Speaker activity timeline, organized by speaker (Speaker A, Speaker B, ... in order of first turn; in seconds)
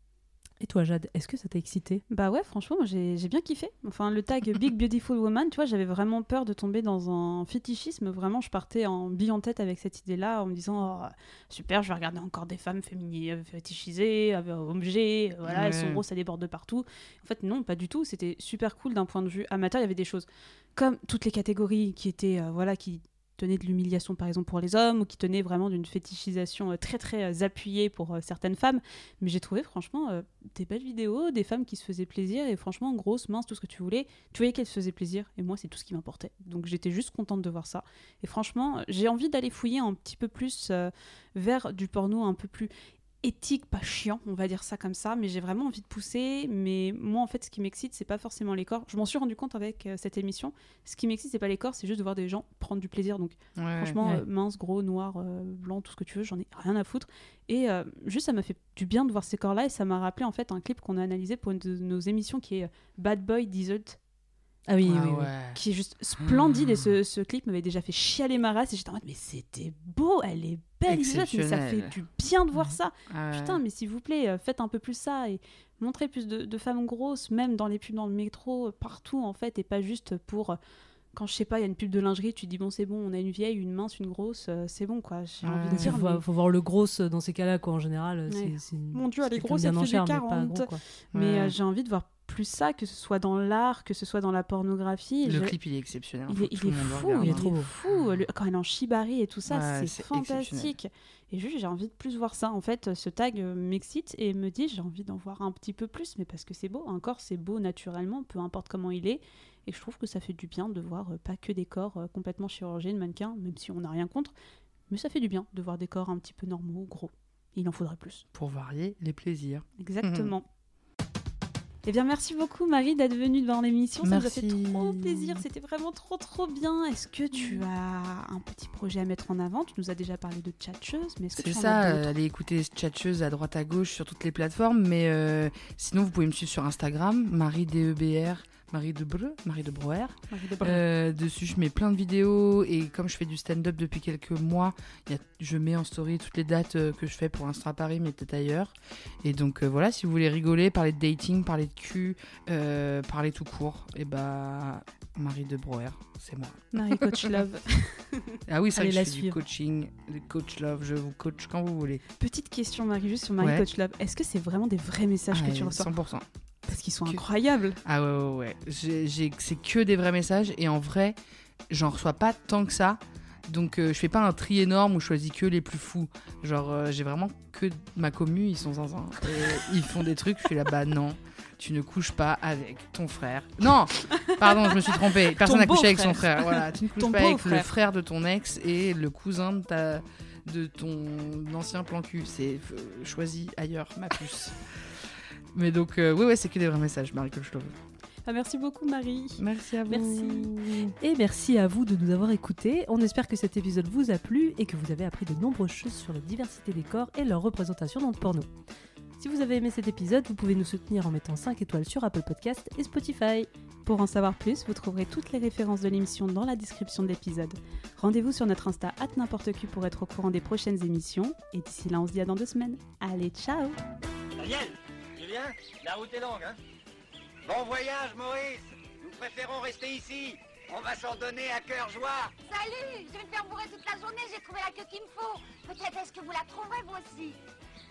Speaker A: 0.6-2.0, 64.7-65.3, 85.8-90.8, 97.2-97.7, 158.8-159.4, 199.9-208.5, 209.2-213.5
Speaker B: 2.1-42.7, 43.2-64.0, 65.5-80.6, 81.1-86.2, 88.3-95.5, 96.3-114.3, 114.9-118.2, 119.8-120.4, 121.9-132.1, 140.3-140.8, 156.7-158.4, 162.2-165.9, 166.7-167.8, 184.2-187.7, 198.2-199.4, 213.9-223.8
Speaker C: 15.4-16.0, 53.6-54.0, 64.8-65.6, 66.2-66.9, 70.9-71.9, 73.1-73.6, 85.4-85.9, 91.1-91.5, 95.2-97.4, 99.5-100.7, 118.3-120.3, 124.0-125.4, 131.3-157.3, 158.5-162.0, 163.4-163.7, 165.3-166.2, 167.8-171.2, 171.7-194.6, 195.5-197.8, 199.4-200.9
Speaker D: 224.4-226.6, 227.4-232.4
Speaker E: 232.5-237.4